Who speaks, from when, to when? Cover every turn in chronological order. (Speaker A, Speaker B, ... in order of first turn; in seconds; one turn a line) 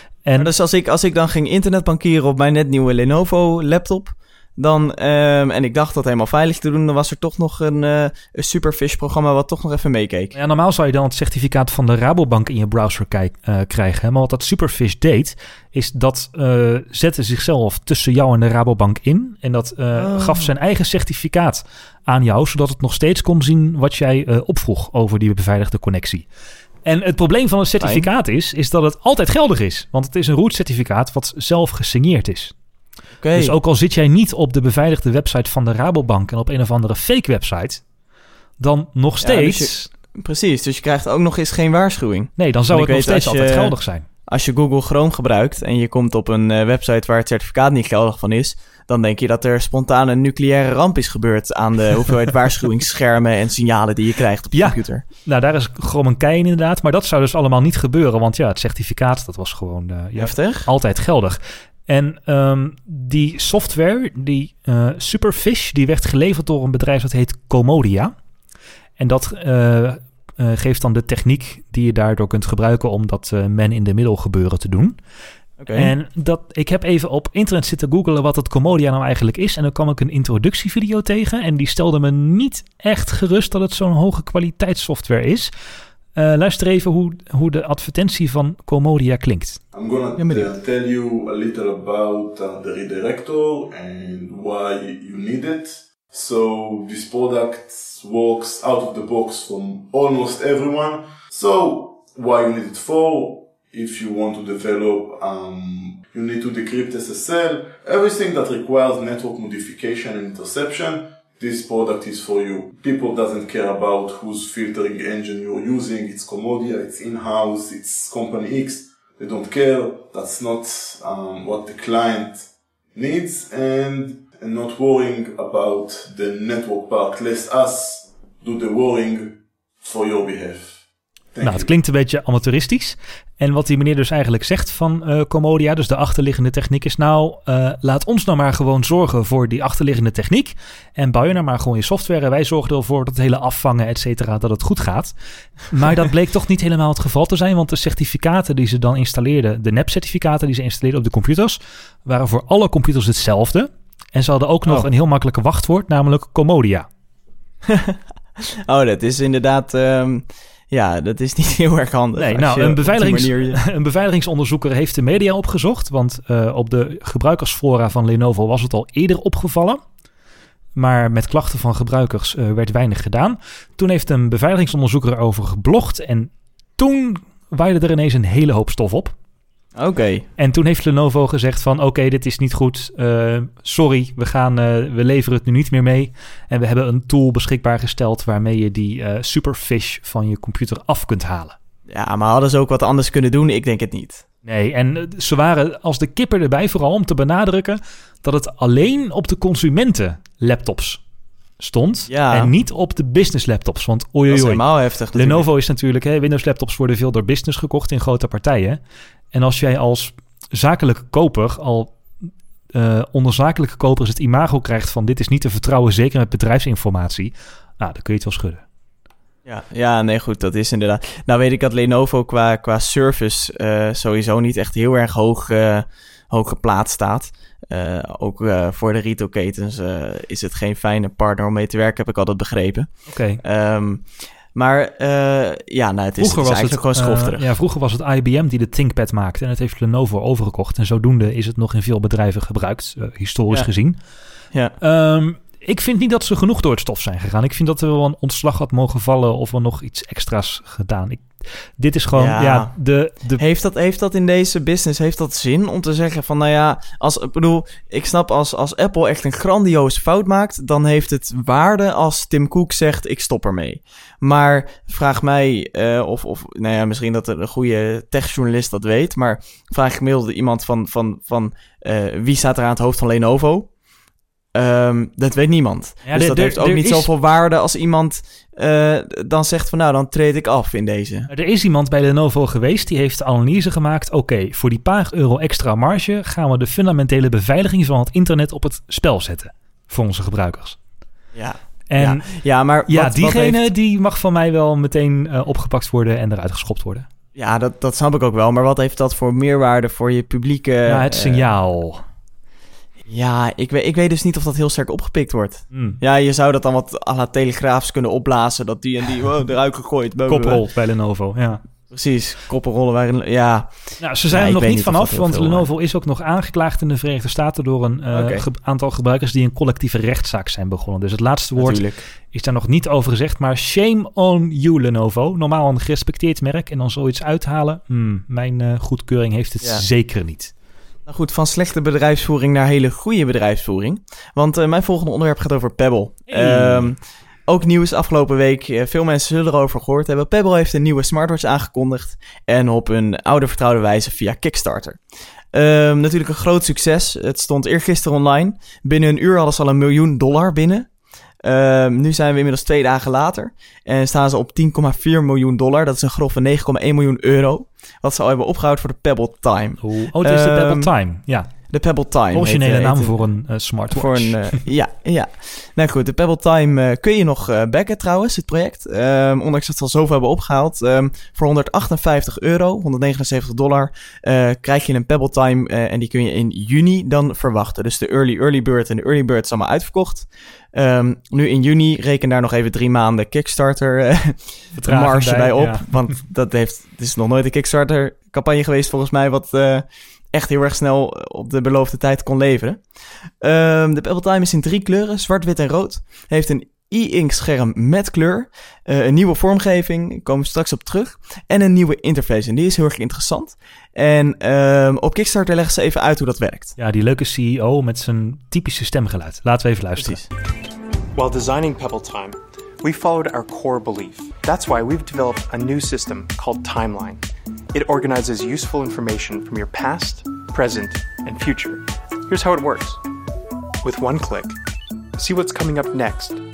Speaker A: 0.2-0.5
Speaker B: 0.4-10.3
Speaker A: 10.3-26.2
Speaker B: 19.9-20.5
Speaker A: 26.8-32.5
Speaker B: 27.8-28.1
Speaker B: 33.2-33.5
Speaker A: 33.3-37.8
Speaker A: 38.6-39.9
Speaker B: 39.2-43.8
Speaker A: 42.4-44.0
Speaker B: 44.3-55.0
Speaker A: 54.5-68.1
Speaker B: 60.1-60.7
Speaker A: 69.0-75.0
Speaker B: 75.6-75.9
Speaker A: 75.7-85.5
Speaker A: 86.1-89.6
Speaker C: 89.7-131.7
Speaker B: 90.2-90.5
Speaker A: 131.4-145.1
Speaker A: 145.7-156.9
Speaker B: 157.7-163.6
Speaker A: 162.2-169.8
Speaker A: 170.7-179.1
Speaker B: 179.7-180.2
Speaker A: 180.4-191.6
Speaker B: 191.9-194.2
Speaker A: 194.4-201.0
Speaker A: 201.6-204.6
Speaker B: 202.1-202.5
Speaker B: 204.3-205.5
Speaker A: 205.1-208.8
Speaker A: 209.3-212.0
Speaker A: 212.7-218.6
Speaker B: 219.4-237.5
Speaker A: 233.1-233.4
Speaker A: 236.2-244.0
Speaker A: 244.8-253.4
Speaker B: 252.1-252.7
Speaker B: 253.4-273.7
Speaker B: 274.5-281.3
Speaker A: 276.1-277.1
Speaker A: 281.3-290.8
Speaker B: 291.3-293.6
Speaker A: 291.9-297.1
Speaker B: 297.4-301.4
Speaker A: 300.9-302.0
Speaker B: 303.1-310.6
Speaker A: 305.7-306.0
Speaker A: 310.2-311.6
Speaker B: 311.9-313.7
Speaker A: 314.0-330.5
Speaker B: 314.3-315.7
Speaker B: 318.1-318.4
Speaker B: 321.6-322.0
Speaker B: 331.1-345.0
Speaker A: 336.3-336.9
Speaker B: 345.5-350.9
Speaker B: 351.4-360.9
Speaker A: 359.8-361.5
Speaker B: 361.7-363.1
Speaker A: 362.3-364.4
Speaker B: 363.9-392.8
Speaker A: 384.7-385.9
Speaker B: 393.4-406.7
Speaker A: 406.8-410.2
Speaker B: 410.0-410.3
Speaker D: 411.1-417.2
Speaker D: 417.7-423.0
Speaker D: 423.8-424.6
Speaker D: 425.1-426.4